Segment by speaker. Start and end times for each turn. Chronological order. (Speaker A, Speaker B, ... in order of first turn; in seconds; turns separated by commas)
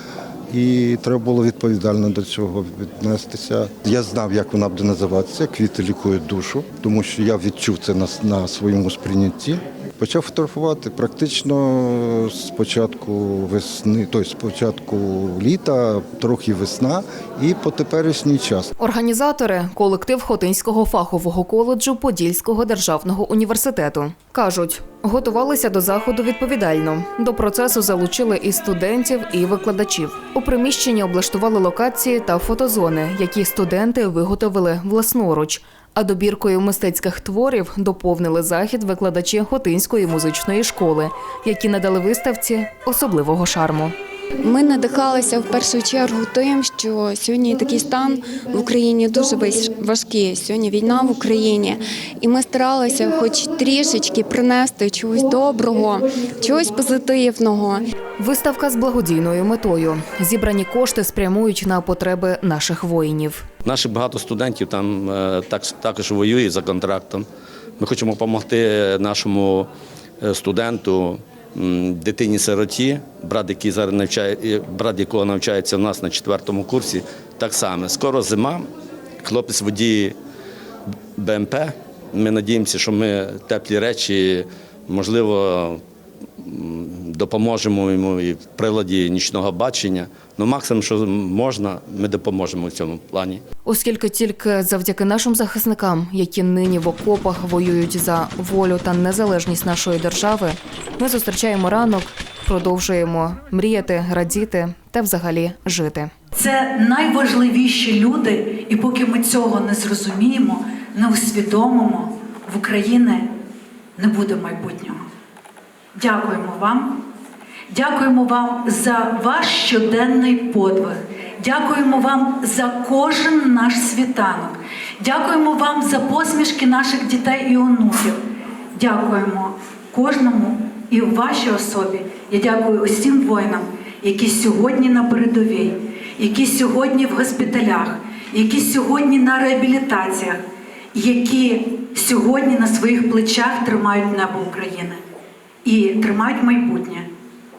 Speaker A: 0.5-18.7, Speaker B: 18.8-43.9, Speaker C: 44.4-57.8, Speaker B: 58.2-63.4, Speaker D: 63.6-67.2, Speaker D: 67.8-69.7, Speaker D: 70.2-78.7, Speaker D: 79.2-80.1, Speaker D: 81.2-85.8, Speaker D: 86.4-93.4, Speaker B: 93.6-106.1, Speaker E: 106.3-113.3, Speaker E: 114.0-115.0, Speaker E: 116.0-117.0, Speaker E: 117.7-128.2, Speaker E: 128.7-140.4, Speaker E: 140.9-145.0, Speaker E: 145.6-147.1